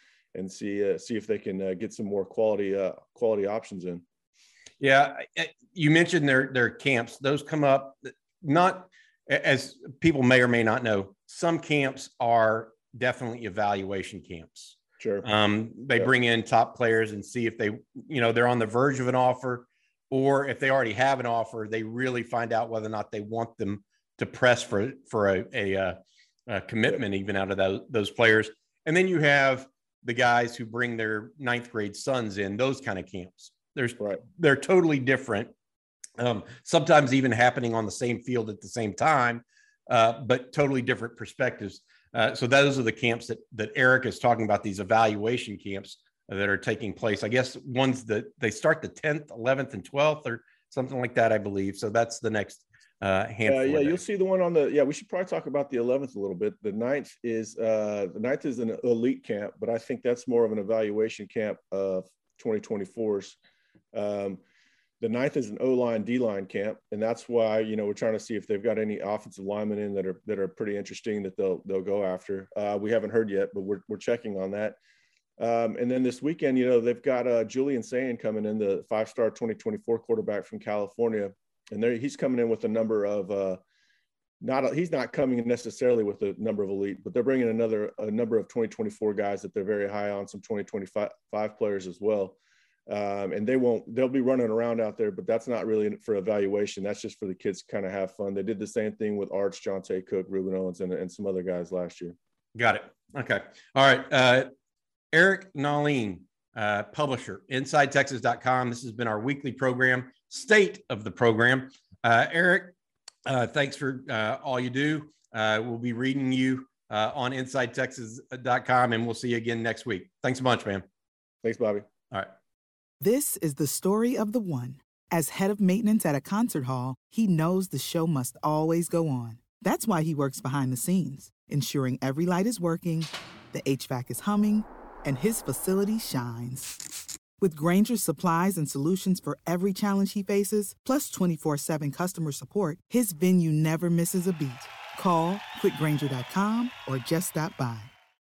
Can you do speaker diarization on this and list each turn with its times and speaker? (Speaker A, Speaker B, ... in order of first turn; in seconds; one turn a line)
Speaker A: 0.3-4.0
Speaker B: 4.8-35.5
Speaker A: 15.0-15.2
Speaker B: 36.2-54.0
Speaker A: 53.5-63.4
Speaker A: 63.9-64.4
Speaker A: 65.0-74.8
Speaker A: 75.4-83.6
Speaker A: 84.4-92.4
Speaker A: 92.9-102.2
Speaker B: 102.5-104.5
Speaker B: 105.1-112.7
Speaker B: 113.2-120.8
Speaker A: 121.4-121.9
Speaker C: 123.0-136.8
Speaker C: 137.4-147.9